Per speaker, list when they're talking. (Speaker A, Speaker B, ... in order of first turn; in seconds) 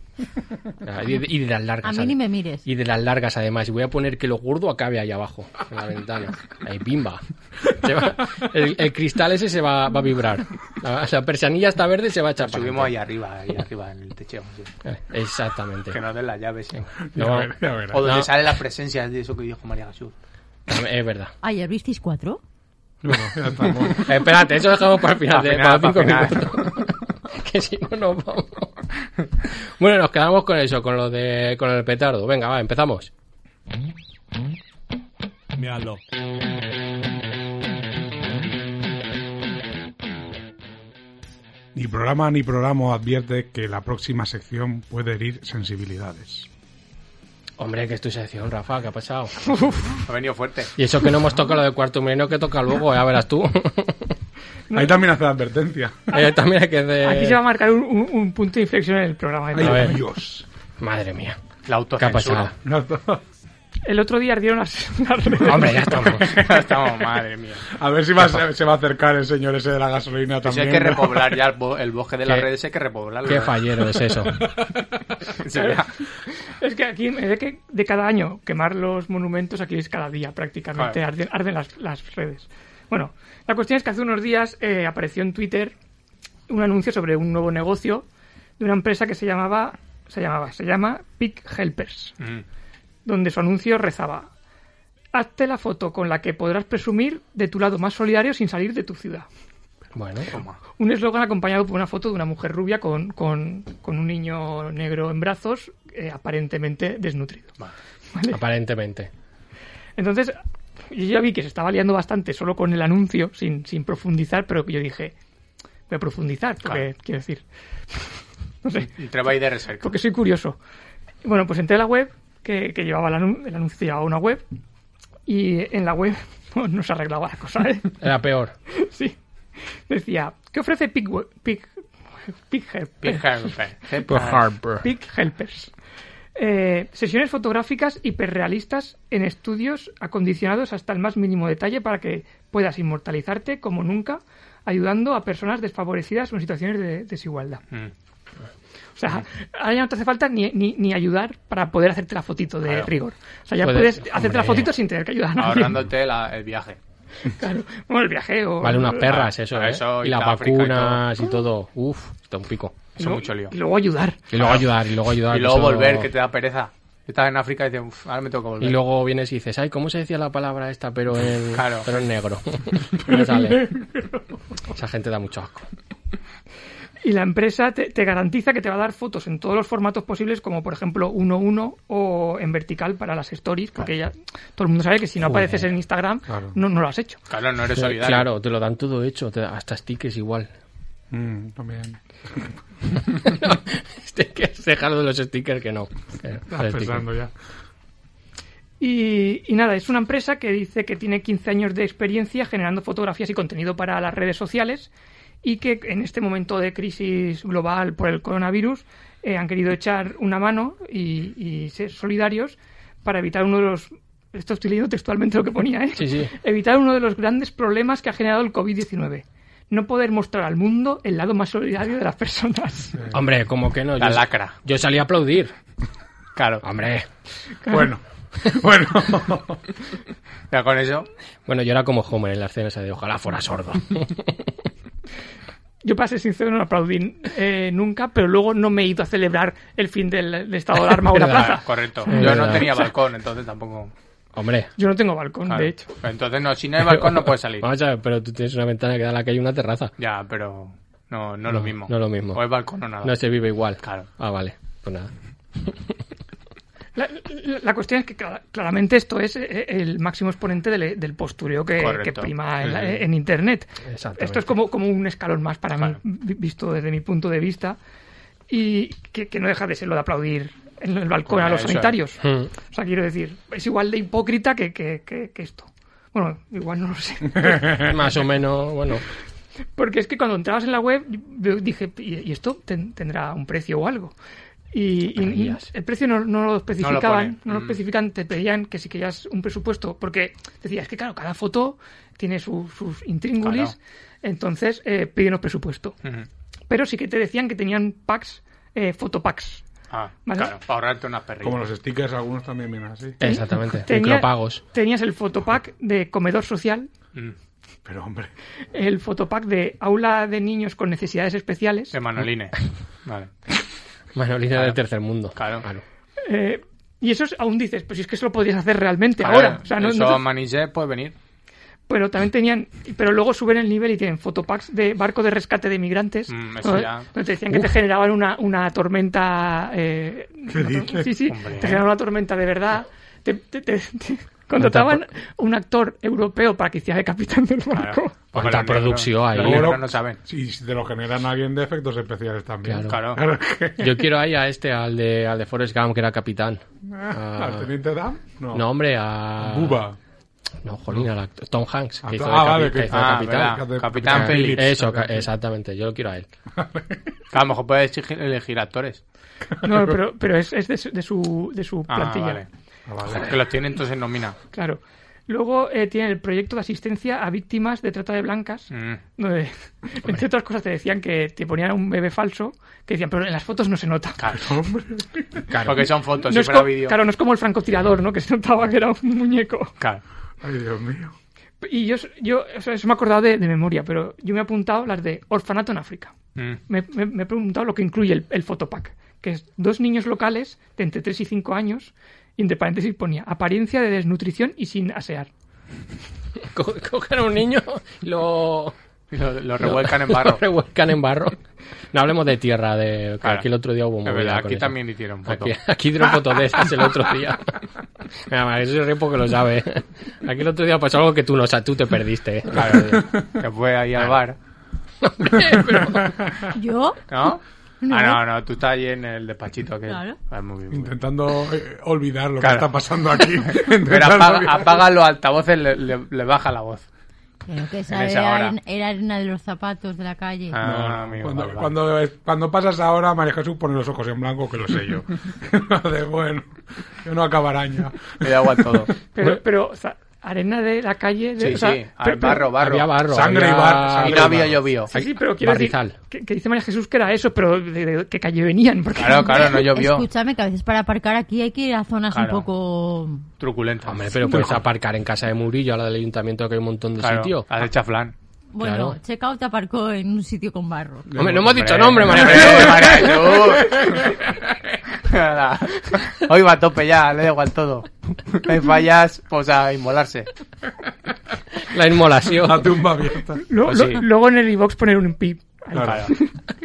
Speaker A: 0.8-12.9, 14.8-16.0, 16.8-18.3, 20.7-21.3, 24.0-28.7, 29.8-33.1, 47.6-49.3, 50.8-54.1, 56.1-57.4, 59.6-60.0, 60.8-61.4, 62.0-62.5, 65.4-66.3, 73.2-74.4, 99.9-100.3, 108.3-109.1, 128.0-128.5, 134.1-134.9, 153.6-154.7, 158.6-162.8, 164.3-166.1, 168.6-173.7, 174.7-175.7, 185.2-185.6, 187.7-190.5, 193.1-197.0, 215.9-216.3, 223.1-225.5, 226.6-227.1, 231.4-234.5, 240.8-242.8, 244.3-244.7, 246.8-249.9, 251.5-252.4, 253.0-255.9, 263.9-264.4, 272.2-272.5, 277.8-279.0, 285.2-285.6, 303.2-304.6, 314.1-315.8, 334.6-335.0, 338.3-339.8, 342.6-343.0, 343.8-347.7, 348.5-349.8, 350.6-356.3, 375.5-375.9, 396.4-398.7, 399.6-401.4, 401.9-407.5, 408.1-413.1, 415.0-416.2, 442.6-445.9, 453.9-457.5, 458.6-459.0, 461.1-463.4, 471.6-472.8
Speaker B: 1.8-2.6, 21.4-22.4, 416.5-417.1, 417.8-418.2, 419.9-420.2, 427.5-430.6, 449.5-453.2, 458.5-461.1
Speaker C: 12.4-14.7, 15.9-16.9, 17.9-20.1, 25.3-26.9, 50.0-50.7, 61.6-62.5, 66.0-67.6, 70.4-73.6, 75.3-75.9, 100.3-100.6, 119.0-119.9, 133.0-134.4, 152.6-152.9, 155.4-156.8, 159.0-161.1, 163.0-163.6, 164.3-164.7, 165.3-168.8, 171.5-171.9, 187.3-188.3, 224.0-224.6, 226.3-226.6, 230.5-231.1, 241.3-243.9, 245.5-247.7, 250.0-253.2, 253.8-254.1, 261.8-262.3, 271.3-272.0, 286.8-287.8, 293.4-293.7, 299.9-301.6, 311.9-313.3, 315.3-315.6, 319.2-321.1, 326.3-327.1, 331.2-331.8, 337.7-340.2, 342.9-343.2, 352.9-354.7, 357.3-359.0, 361.9-362.5, 363.1-364.4, 368.7-369.0, 375.6-377.0, 399.1-400.4, 404.0-405.5, 412.5-414.4, 417.1-420.9, 422.4-422.7, 423.5-426.8, 427.9-428.5, 430.5-431.7, 438.2-438.9, 441.4-442.9, 443.9-444.9, 448.9-450.1, 452.1-452.4, 453.4-454.3, 457.0-458.1, 461.3-464.2, 464.9-470.3, 473.6-474.0, 475.8-476.1
Speaker D: 17.0-18.0, 23.0-24.1, 35.6-36.0, 41.7-46.5, 54.7-56.1, 59.5-60.4, 62.6-63.2, 67.7-71.4, 74.4-74.7, 173.1-173.5, 186.3-186.6, 191.1-192.5, 196.5-197.3, 227.7-229.6, 301.4-303.2, 307.8-308.3, 330.5-331.2, 339.3-344.0, 346.9-348.7, 349.4-349.9, 352.0-355.3, 356.6-357.0, 359.6-359.9, 362.9-363.4, 374.3-375.5, 380.4-381.1, 415.8-416.1, 420.7-424.9, 430.6-438.9, 443.0-444.6, 461.1-464.1, 472.3-473.4, 475.7-476.1
Speaker E: 49.4-50.0, 54.7-55.0, 57.0-60.0, 63.8-65.8, 75.5-75.8, 76.5-85.7, 86.5-88.0, 88.6-92.1, 93.0-94.3, 95.1-99.2, 100.8-107.5, 108.1-108.4, 110.0-110.4, 110.9-115.1, 115.9-118.9, 119.8-120.6, 121.2-124.4, 125.2-128.0, 128.7-129.2, 129.9-131.7, 132.3-133.5, 134.8-135.7, 136.3-147.6, 148.9-155.8, 157.2-159.2, 163.0-164.2, 177.0-187.2, 198.8-204.9, 205.4-223.0, 235.8-242.7, 244.8-245.9, 256.9-267.8, 268.5-277.9, 279.7-284.1, 284.7-295.9, 296.7-299.6, 300.2-300.5, 303.2-306.9, 308.7-311.9, 316.2-320.2, 321.9-338.2, 359.6-362.4, 364.5-374.2, 376.1-379.7, 381.6-386.1, 386.7-395.3, 439.1-442.5, 444.9-449.7, 473.4-476.4